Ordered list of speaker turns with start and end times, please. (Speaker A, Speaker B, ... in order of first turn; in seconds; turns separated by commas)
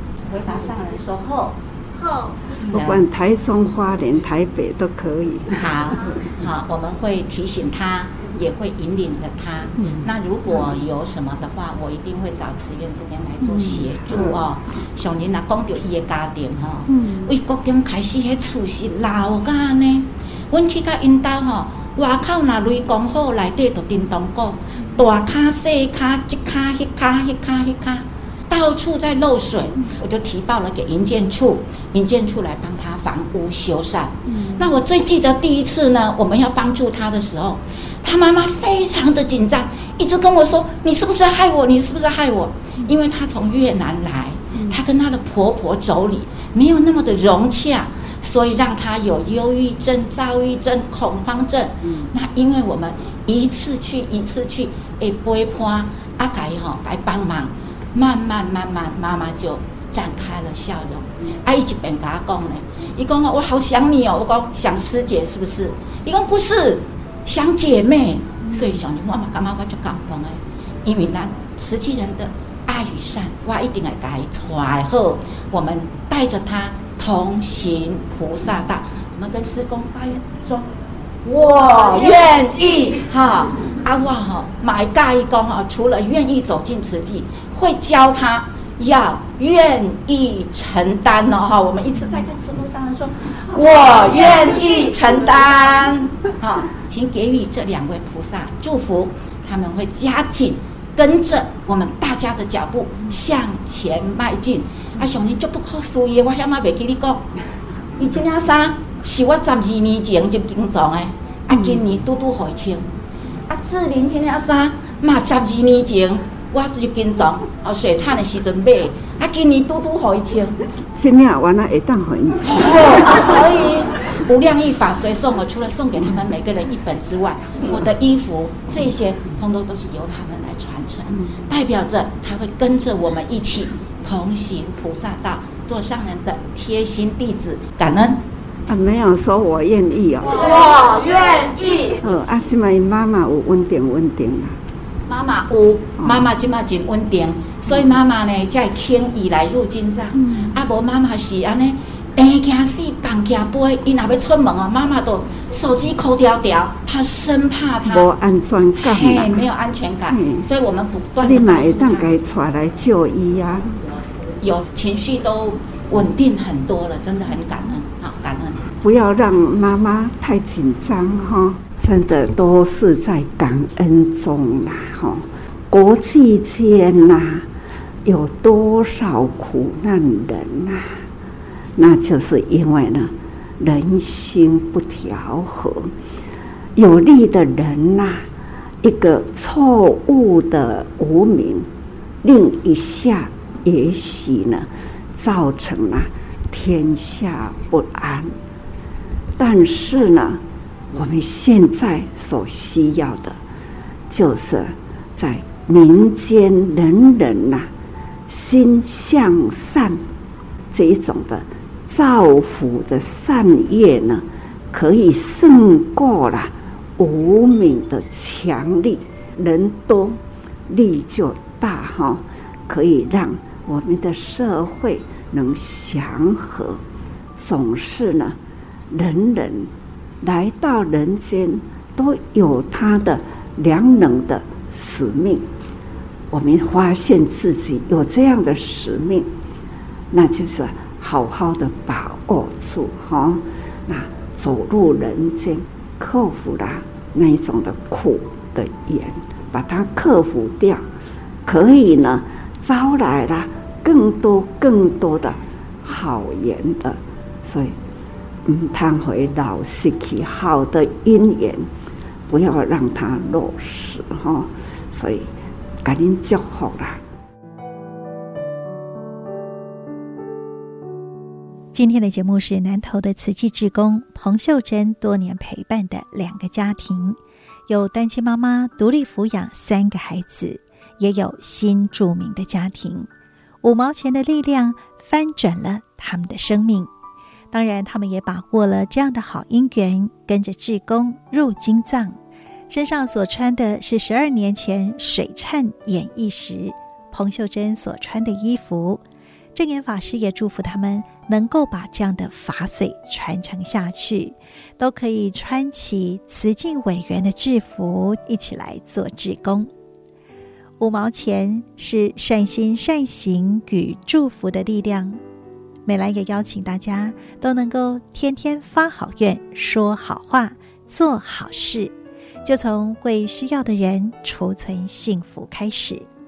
Speaker A: 0.2-3.0, Speaker B: 2.7-5.7, Speaker A: 5.5-80.7, Speaker B: 13.4-14.4, Speaker B: 16.9-17.3, Speaker B: 44.6-44.8, Speaker A: 81.2-107.2, Speaker A: 108.0-112.9, Speaker B: 111.5-111.8, Speaker A: 113.5-120.6, Speaker B: 120.9-123.2, Speaker A: 122.5-138.2, Speaker B: 138.7-140.6, Speaker A: 140.4-142.0, Speaker B: 142.0-144.6, Speaker A: 145.1-158.1, Speaker B: 146.0-146.3, Speaker B: 150.2-150.5, Speaker B: 157.8-159.4, Speaker A: 158.8-162.2, Speaker B: 160.1-160.5, Speaker B: 161.2-163.8, Speaker A: 164.4-168.7, Speaker B: 168.8-177.5, Speaker B: 178.1-181.0, Speaker B: 181.8-185.9, Speaker B: 186.8-188.2, Speaker B: 188.8-191.7, Speaker B: 192.2-198.3, Speaker B: 199.4-203.4, Speaker B: 204.1-207.7, Speaker B: 208.3-210.0, Speaker B: 210.7-226.8, Speaker B: 227.4-228.4, Speaker B: 228.9-229.7, Speaker B: 230.2-235.5, Speaker B: 236.3-239.3, Speaker B: 240.1-250.9, Speaker B: 251.4-257.8, Speaker B: 258.5-261.7, Speaker B: 262.3-265.3, Speaker B: 265.8-267.0, Speaker C: 271.7-283.1, Speaker C: 283.6-286.9, Speaker C: 287.5-292.2, Speaker C: 292.7-299.0, Speaker C: 299.6-309.7, Speaker C: 310.8-315.2, Speaker C: 315.9-321.9, Speaker C: 322.4-326.1